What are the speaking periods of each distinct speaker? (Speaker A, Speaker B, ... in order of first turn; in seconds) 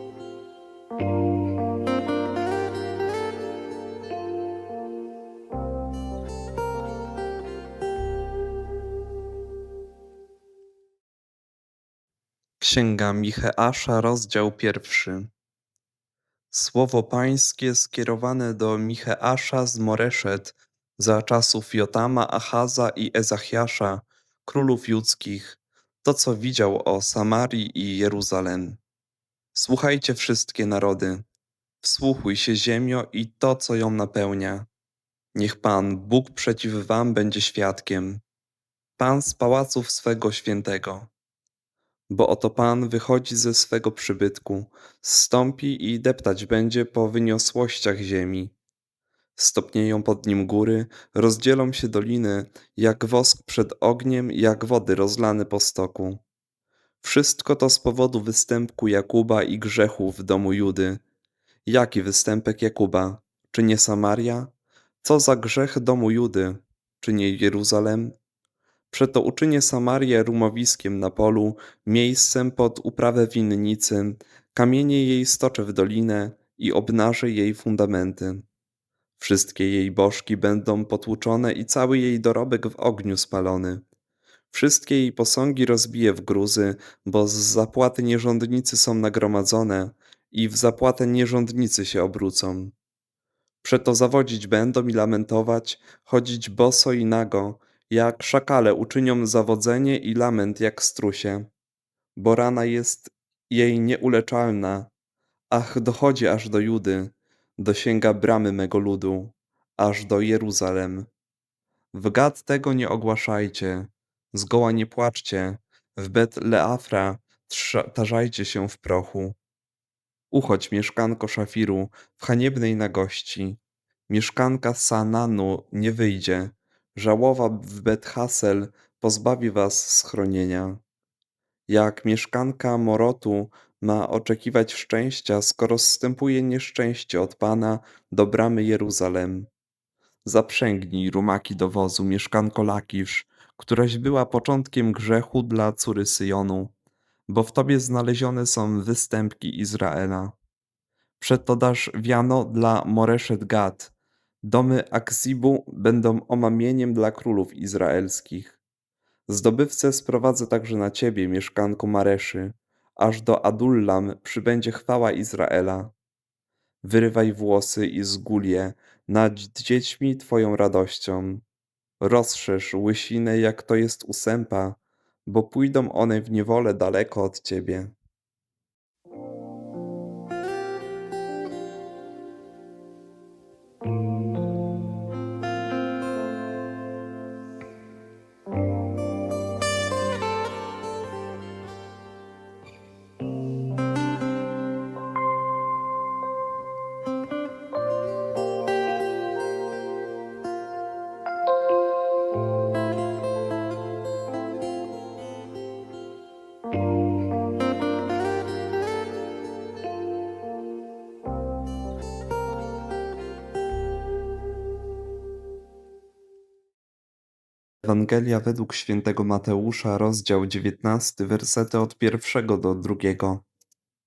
Speaker A: 12.6-15.3, 16.5-28.8, 29.5-31.3, 31.8-34.7, 35.3-38.2, 39.0-41.1, 42.1-48.5, 49.4-56.2, 57.0-61.0, 61.6-68.2, 68.9-78.5, 79.2-83.8, 84.5-92.7, 93.6-101.5, 102.2-104.9, 105.5-111.1, 111.9-119.4, 120.3-130.8, 131.7-139.5, 140.2-146.7, 147.3-150.3, 151.2-158.6, 159.3-165.9, 166.8-171.4, 172.0-177.9, 217.8-223.4